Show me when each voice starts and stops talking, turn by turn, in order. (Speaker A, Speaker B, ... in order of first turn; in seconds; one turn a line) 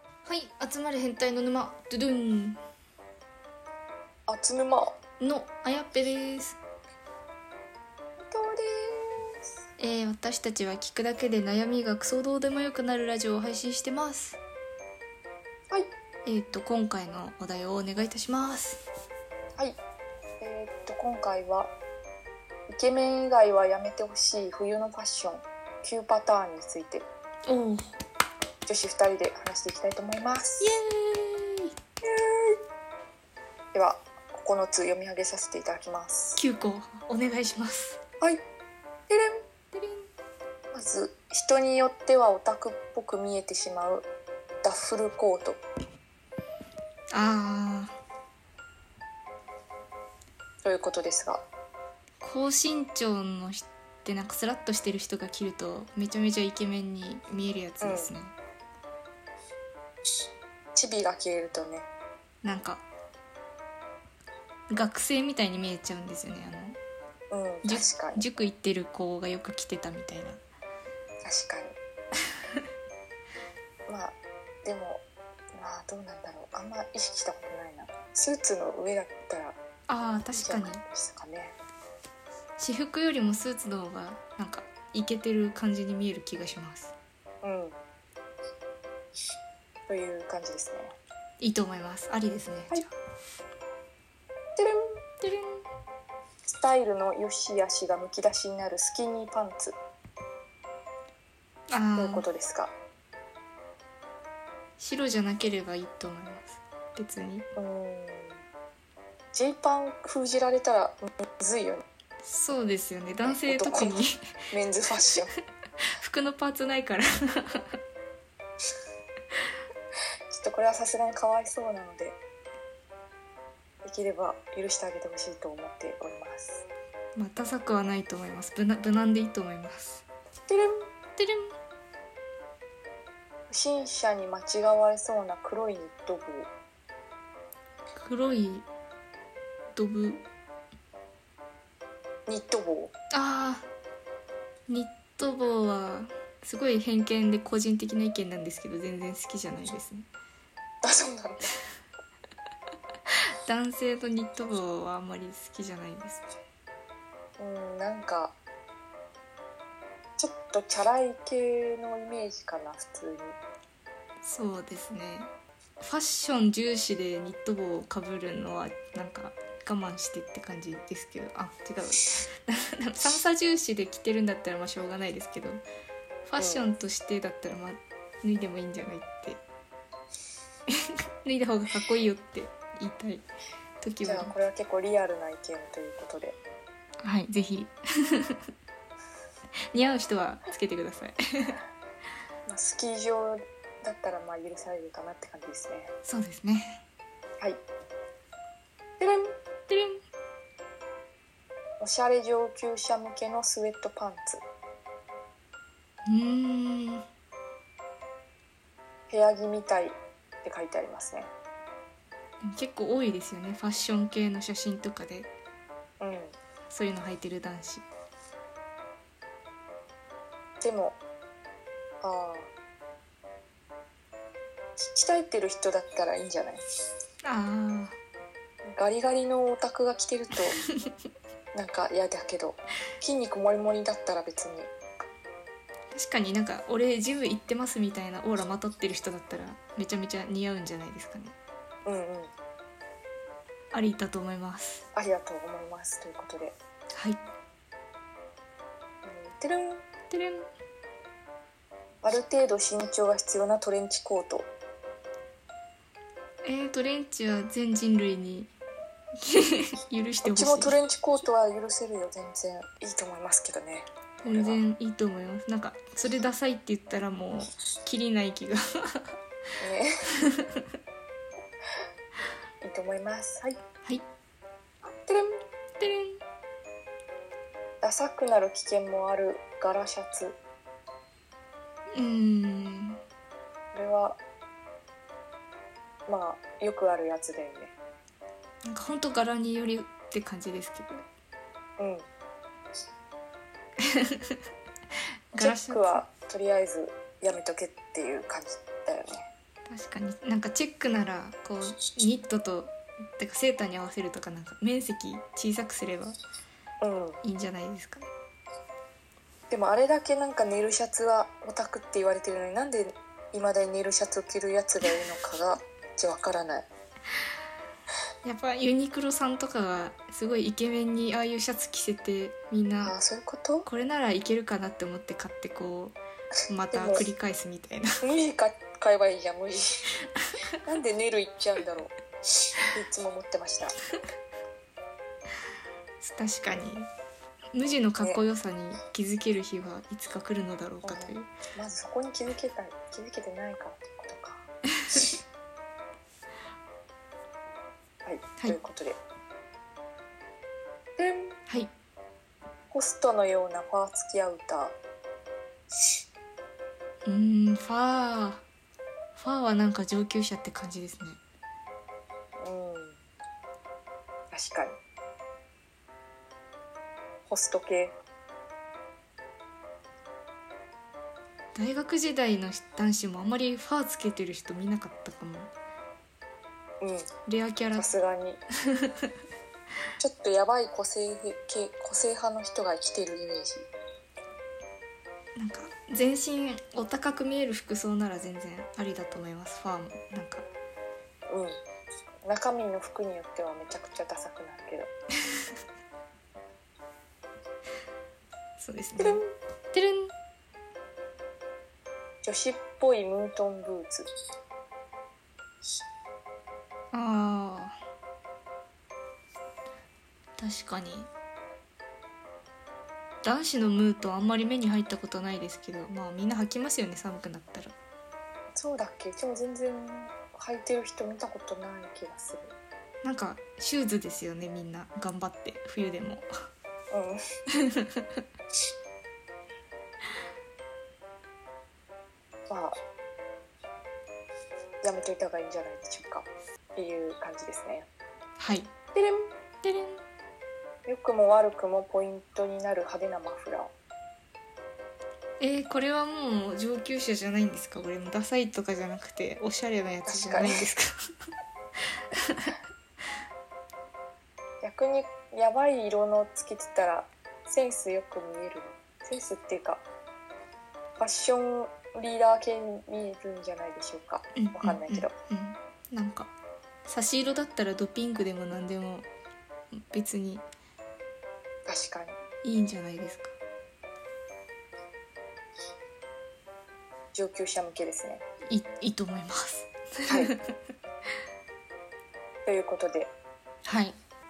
Speaker A: 0.2-2.6
Speaker B: 4.3-5.0
Speaker A: 5.2-6.6
Speaker B: 8.2-9.4
Speaker A: 9.8-14.4
Speaker A: 16.2-18.8
Speaker B: 20.4-21.7
Speaker B: 22.7-27.1
Speaker A: 27.5-28.0
Speaker B: 28.6-30.8
Speaker A: 30.6-31.7
Speaker B: 32.0-32.6
Speaker B: 33.7-36.4
Speaker A: 36.4-38.0
Speaker B: 39.1-39.4
Speaker A: 39.7-40.1
Speaker B: 40.7-44.1
Speaker B: 44.6-45.6
Speaker A: 47.1-47.9
Speaker B: 50.6-51.4
Speaker A: 52.2-58.3
Speaker B: 57.8-58.1
Speaker B: 60.8-61.9
Speaker A: 62.4-62.8
Speaker A: 64.7-66.8
Speaker B: 67.3-68.2
Speaker A: 67.6-70.4
Speaker B: 71.2-71.7
Speaker B: 73.9-75.0
Speaker B: 75.5-79.6
Speaker A: 79.9-80.8
Speaker B: 80.2-81.5
Speaker A: 82.6-86.9
Speaker B: 87.4-87.8
Speaker B: 89.9-91.0
Speaker A: 91.4-92.9
Speaker A: 95.2-95.7
Speaker B: 96.5-99.8
Speaker A: 101.7-102.2
Speaker B: 102.0-102.7
Speaker A: 104.8-107.5
Speaker B: 107.5-108.4
Speaker B: 109.3-111.8
Speaker A: 112.2-114.2
Speaker B: 113.2-115.3
Speaker A: 115.9-117.7
Speaker B: 120.3-122.2
Speaker B: 123.8-126.7
Speaker A: 127.2-130.0
Speaker B: 130.5-130.9
Speaker A: 131.2-131.5
Speaker B: 133.5-136.5
Speaker A: 137.9-138.7
Speaker A: 139.7-140.2
Speaker B: 142.3-142.9
Speaker A: 143.1-143.7
Speaker A: 144.7-150.0
Speaker B: 150.8-151.5
Speaker A: 153.4-156.3
Speaker B: 157.4-158.3
Speaker B: 160.2-163.4
Speaker A: 164.2-175.6
Speaker A: 176.2-179.4
Speaker B: 176.4-176.6
Speaker A: 180.7-183.2
Speaker A: 183.8-184.3
Speaker B: 184.0-186.4
Speaker A: 187.0-188.4
Speaker A: 189.7-191.6
Speaker B: 192.5-195.9
Speaker A: 196.0-196.8
Speaker B: 199.0-199.3
Speaker A: 199.7-200.0
Speaker B: 201.8-204.4
Speaker A: 206.1-207.0
Speaker B: 209.1-211.3
Speaker A: 212.4-215.3
Speaker B: 216.0-216.3
Speaker A: 216.7-217.8
Speaker B: 220.6-221.0
Speaker B: 222.0-222.5
Speaker B: 224.8-226.6
Speaker A: 227.2-228.0
Speaker B: 228.7-230.6
Speaker B: 231.5-234.7
Speaker A: 235.9-241.3
Speaker B: 241.8-242.3
Speaker A: 243.7-244.8
Speaker B: 244.9-246.6
Speaker B: 249.0-249.8
Speaker A: 250.1-250.5
Speaker B: 252.0-254.5
Speaker A: 256.4-258.5
Speaker A: 259.2-260.7
Speaker B: 260.2-264.6
Speaker A: 264.2-269.0
Speaker B: 269.6-269.9
Speaker B: 272.6-273.6
Speaker B: 274.8-275.4
Speaker A: 275.8-276.2
Speaker B: 277.8-280.4
Speaker A: 281.9-283.0
Speaker B: 283.7-284.2
Speaker B: 286.1-287.7
Speaker A: 288.6-291.0
Speaker B: 291.8-292.1
Speaker A: 293.9-294.4
Speaker A: 295.3-296.0
Speaker B: 295.4-299.3
Speaker A: 299.7-306.2
Speaker B: 306.8-307.2
Speaker A: 307.2-308.1
Speaker B: 309.5-316.7
Speaker A: 318.2-323.0
Speaker B: 322.8-323.7
Speaker A: 323.6-326.0
Speaker A: 326.5-327.9
Speaker B: 326.7-327.0
Speaker B: 328.0-329.9
Speaker B: 330.6-332.0
Speaker B: 332.6-333.7
Speaker A: 336.0-336.9
Speaker A: 337.5-341.3
Speaker B: 340.8-344.5
Speaker B: 348.0-349.0
Speaker B: 351.0-351.4
Speaker B: 352.7-354.8
Speaker A: 357.1-358.4
Speaker A: 359.1-361.2
Speaker B: 362.4-363.0
Speaker B: 364.3-364.8
Speaker B: 367.3-368.0
Speaker A: 371.5-375.5
Speaker B: 376.8-377.1
Speaker A: 377.3-377.9
Speaker B: 377.7-378.4
Speaker A: 378.7-379.1
Speaker B: 380.0-383.7
Speaker A: 385.4-390.5
Speaker B: 391.3-391.6
Speaker B: 392.2-394.9
Speaker A: 398.6-399.2
Speaker B: 399.0-399.3
Speaker A: 399.7-400.1
Speaker B: 402.2-404.1
Speaker A: 406.9-407.8
Speaker A: 410.4-411.1
Speaker A: 413.2-417.7
Speaker B: 418.5-422.5
Speaker A: 423.0-426.3
Speaker B: 426.9-427.2
Speaker B: 432.5-432.8
Speaker B: 434.8-437.9
Speaker A: 438.4-438.7
Speaker B: 438.9-439.3
Speaker A: 439.6-440.0
Speaker B: 440.9-443.7
Speaker A: 445.4-450.9
Speaker B: 450.0-450.6
Speaker A: 452.1-452.5
Speaker B: 454.6-459.8
Speaker B: 461.0-465.1
Speaker A: 464.4-466.3
Speaker A: 466.9-469.1
Speaker A: 469.8-470.4
Speaker B: 471.6-472.2
Speaker A: 472.4-473.3
Speaker B: 477.1-478.2
Speaker A: 478.4-480.5
Speaker B: 482.4-483.1
Speaker A: 483.6-484.0